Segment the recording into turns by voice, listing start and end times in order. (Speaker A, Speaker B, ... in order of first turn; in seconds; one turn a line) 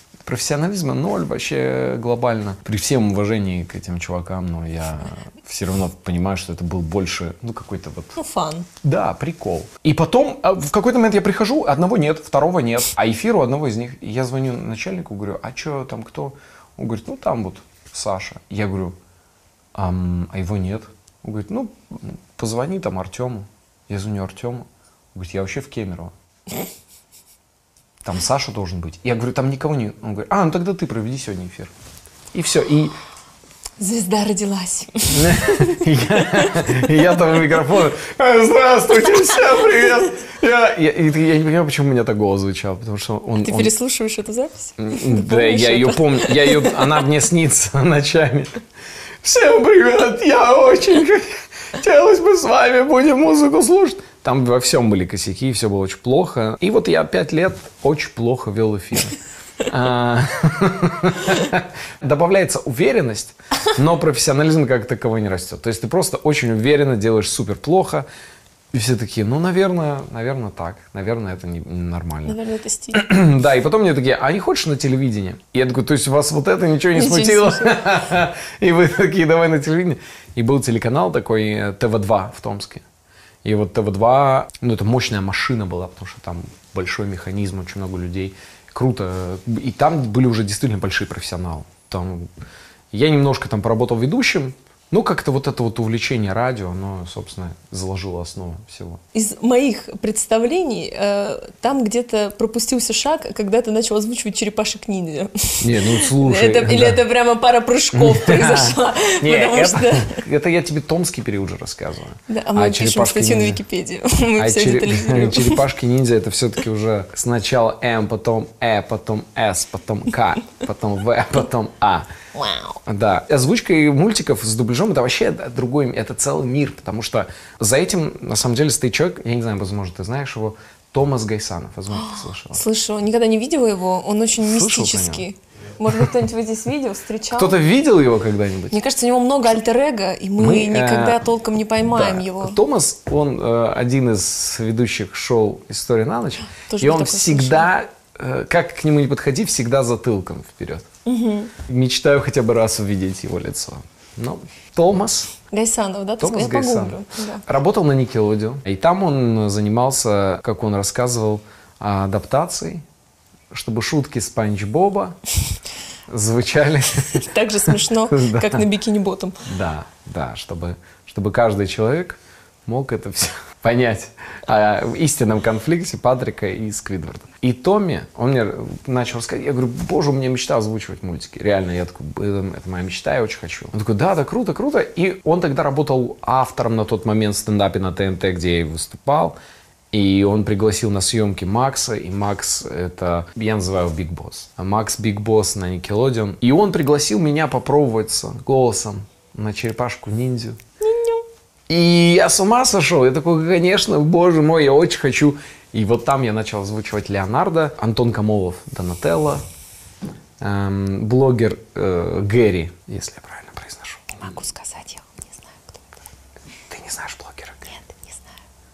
Speaker A: 0.2-8.2
Speaker B: 8.2-8.7
Speaker A: 8.8-19.0
Speaker A: 19.8-26.1
Speaker A: 28.0-31.7
Speaker A: 32.3-33.0
Speaker B: 33.8-36.8
Speaker A: 35.1-43.7
Speaker B: 39.2-39.5
Speaker B: 43.4-47.0
Speaker A: 44.8-48.6
Speaker A: 49.2-68.1
Speaker A: 68.7-72.4
Speaker B: 72.2-73.1
Speaker A: 72.9-82.8
Speaker B: 76.9-77.9
Speaker A: 83.4-92.3
Speaker A: 92.9-99.0
Speaker B: 99.1-110.2
Speaker A: 105.6-107.0
Speaker A: 107.9-113.6
Speaker B: 112.3-115.7
Speaker A: 114.4-122.1
Speaker B: 122.3-122.8
Speaker A: 122.9-132.6
Speaker B: 131.9-137.6
Speaker A: 134.4-135.3
Speaker A: 137.3-138.8
Speaker B: 138.7-142.6
Speaker A: 140.4-141.2
Speaker A: 141.9-150.9
Speaker B: 146.6-147.7
Speaker B: 151.1-151.5
Speaker A: 151.7-155.3
Speaker B: 155.5-157.4
Speaker A: 156.2-162.8
Speaker A: 163.5-165.2
Speaker A: 166.1-168.7
Speaker B: 167.0-169.4
Speaker A: 169.4-189.4
Speaker A: 189.9-200.6
Speaker B: 200.8-201.2
Speaker A: 201.7-209.4
Speaker A: 210.4-214.3
Speaker B: 214.2-215.9
Speaker A: 216.7-217.7
Speaker B: 217.7-218.3